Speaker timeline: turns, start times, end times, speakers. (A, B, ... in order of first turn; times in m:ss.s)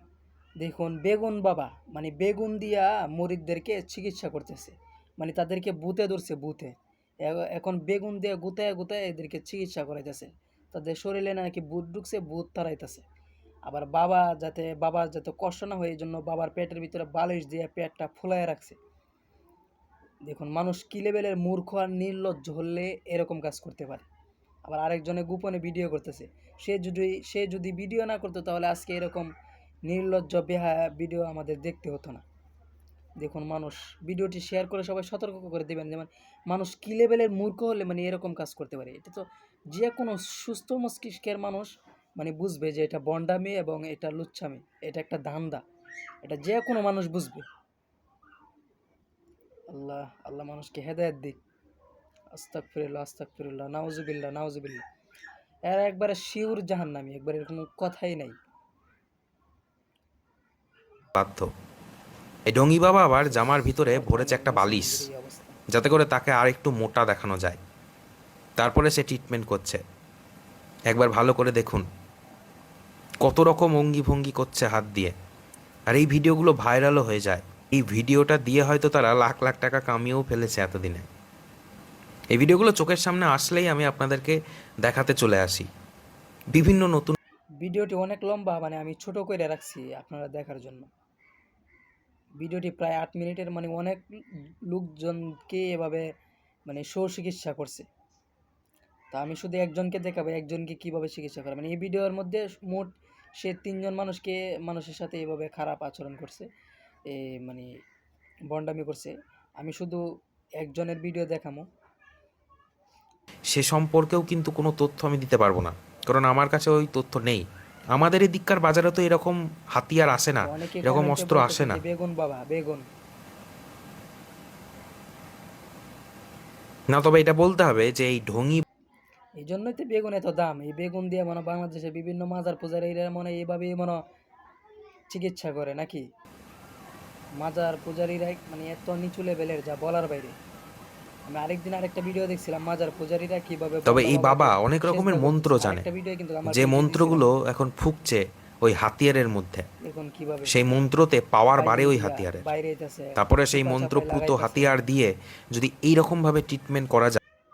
0:00.6-0:13.0 A
0:13.7-0:18.8 A
0:20.3-0:24.0 A
0:24.6-0:29.3 A
0:29.9-0:32.2 A
0:33.2-0:45.6 A
0:46.2-0:47.4 A
0:49.7-0:51.4 A
0:52.3-0:54.8 A
0:55.7-0:58.4 A
1:01.2-1:01.5 B
1:02.5-1:05.0 B
1:03.7-1:05.6 A
1:05.7-1:07.6 B
1:08.6-1:09.8 B
1:10.9-1:11.8 B
1:13.2-1:15.1 B
1:15.9-1:21.1 B
1:22.3-1:25.7 B
1:26.5-1:27.1 B
1:27.6-1:30.9 A
1:32.4-1:34.0 A
1:34.7-1:36.0 A
1:36.7-1:37.8 A
1:39.1-1:46.5 A
1:47.1-1:47.7 A
1:48.5-1:50.0 A
1:50.6-1:51.6 A
1:53.5-2:01.8 B
2:00.4-2:02.8 A
2:06.9-2:08.6 B
2:09.4-2:14.0 A
2:15.1-2:16.0 A
2:17.4-2:20.3 A
2:21.3-2:27.2 A
2:23.8-2:25.8 B
2:26.5-2:29.7 B
2:29.8-2:30.6 A
2:30.4-2:32.5 B
2:31.6-2:34.7 A
2:33.2-2:37.2 B